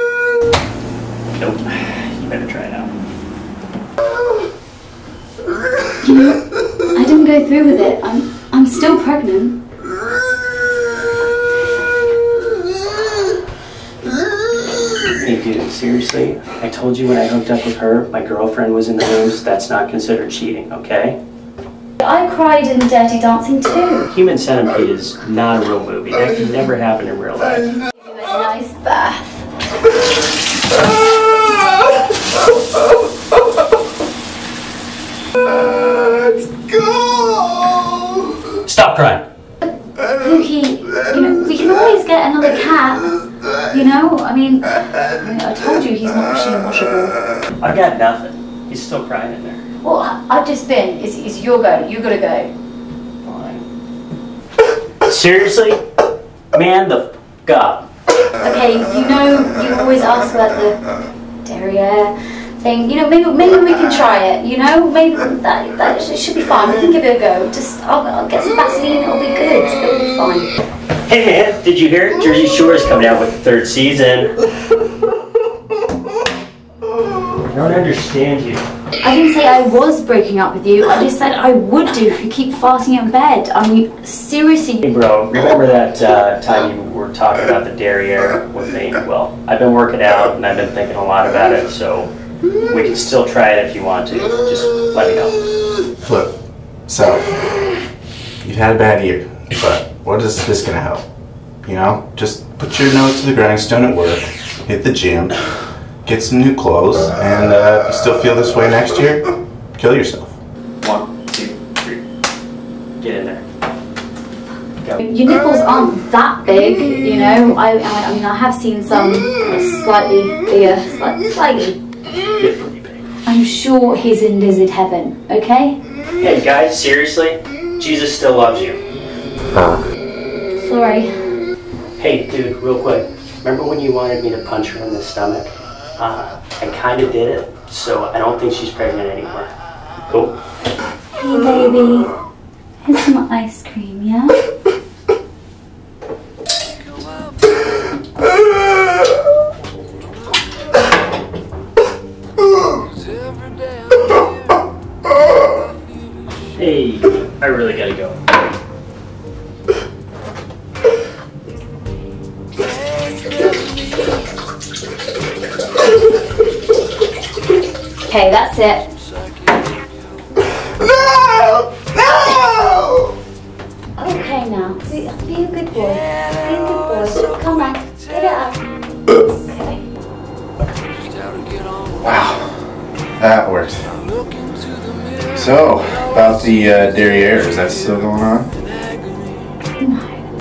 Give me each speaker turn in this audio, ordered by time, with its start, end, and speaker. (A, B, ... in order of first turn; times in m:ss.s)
0:01.4-0:02.9 A
0:06.0-0:09.6 B
0:15.0-0:21.2 A
0:22.0-0:24.1 B
0:24.1-0:27.8 A
0:28.0-0:29.5 B
0:38.6-0:39.3 A
0:40.0-0:47.2 B
0:47.6-0:49.7 A
0:49.8-0:52.5 B
0:53.2-0:53.7 A
0:55.0-0:55.8 A
0:56.5-0:57.9 A
0:58.4-1:00.8 B
1:01.4-1:10.5 B
1:11.1-1:14.4 A
1:17.4-1:18.6 A
1:19.0-1:24.9 B
1:24.8-1:32.1 A
1:32.6-1:35.5 A
1:36.0-1:36.4 C
1:36.9-1:37.4 C
1:38.4-1:41.0 C
1:41.6-1:45.4 C
1:46.0-1:50.4 C
1:50.8-1:52.0 A
1:53.0-1:53.4 A
1:55.0-2:01.8 B
2:02.4-2:03.0 A
2:03.3-2:05.8 B
2:06.2-2:08.8 A
2:10.6-2:11.1 B
2:12.0-2:19.5 A
2:20.1-2:20.4 A
2:21.2-2:22.1 B
2:22.8-2:24.4 B
2:36.6-2:38.2 A
2:48.1-2:48.9 B
2:54.0-2:58.6 B
2:59.3-2:59.8 B
3:02.0-3:02.6 C
3:03.2-3:03.9 C
3:05.3-3:08.5 C
3:09.8-3:10.3 B